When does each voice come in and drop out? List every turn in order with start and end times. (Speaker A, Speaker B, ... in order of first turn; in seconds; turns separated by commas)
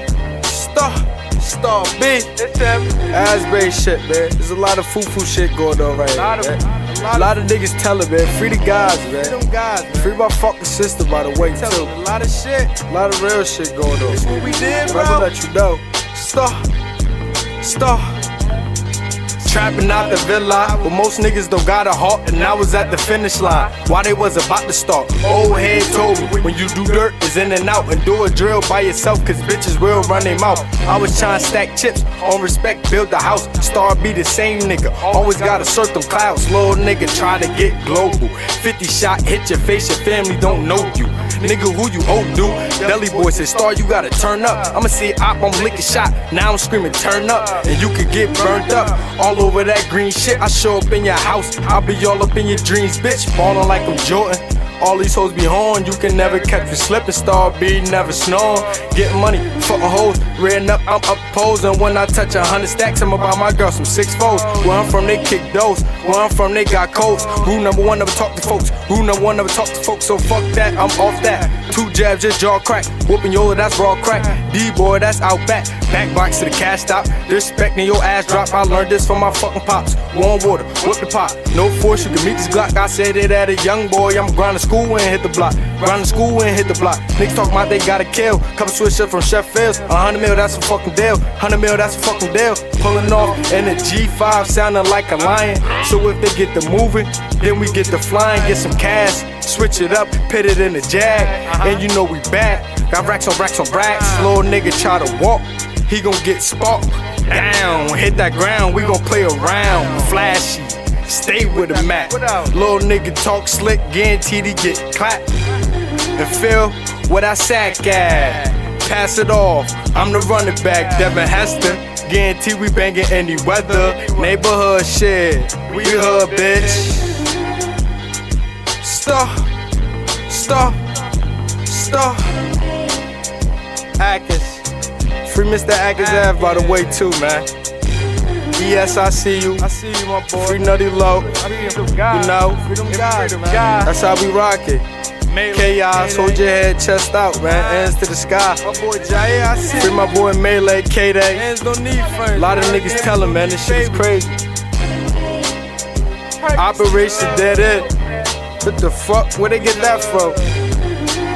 Speaker A: 0.4-2.4, Speaker B: 2.4-3.1, Speaker A: 3.0-9.4, Speaker B: 6.1-7.4, Speaker B: 9.0-10.1, Speaker A: 9.9-11.9, Speaker B: 11.3-12.7, Speaker A: 12.7-16.7, Speaker B: 14.1-15.3, Speaker A: 17.6-18.2, Speaker A: 19.4-115.3, Speaker B: 19.8-20.9, Speaker B: 22.6-23.6, Speaker B: 25.4-26.5, Speaker B: 30.1-30.6, Speaker B: 35.2-35.7, Speaker B: 42.6-43.5, Speaker B: 64.2-64.8, Speaker B: 101.3-101.8, Speaker B: 103.8-104.3, Speaker B: 109.6-110.0, Speaker B: 111.4-112.5, Speaker A: 116.2-127.3, Speaker B: 123.8-124.2, Speaker B: 125.7-127.0, Speaker A: 128.8-129.5, Speaker A: 130.2-130.8, Speaker A: 131.6-132.5, Speaker A: 134.0-134.6, Speaker A: 135.2-137.5, Speaker B: 136.0-137.1, Speaker A: 138.5-139.8, Speaker B: 139.6-143.9, Speaker A: 140.3-144.8, Speaker B: 145.3-146.5, Speaker A: 145.5-148.8, Speaker B: 147.4-147.9, Speaker B: 148.6-150.0, Speaker A: 149.6-151.5, Speaker B: 151.3-154.2, Speaker A: 152.2-154.4, Speaker B: 156.4-158.1, Speaker A: 156.6-157.9, Speaker A: 158.6-160.4, Speaker B: 159.8-160.4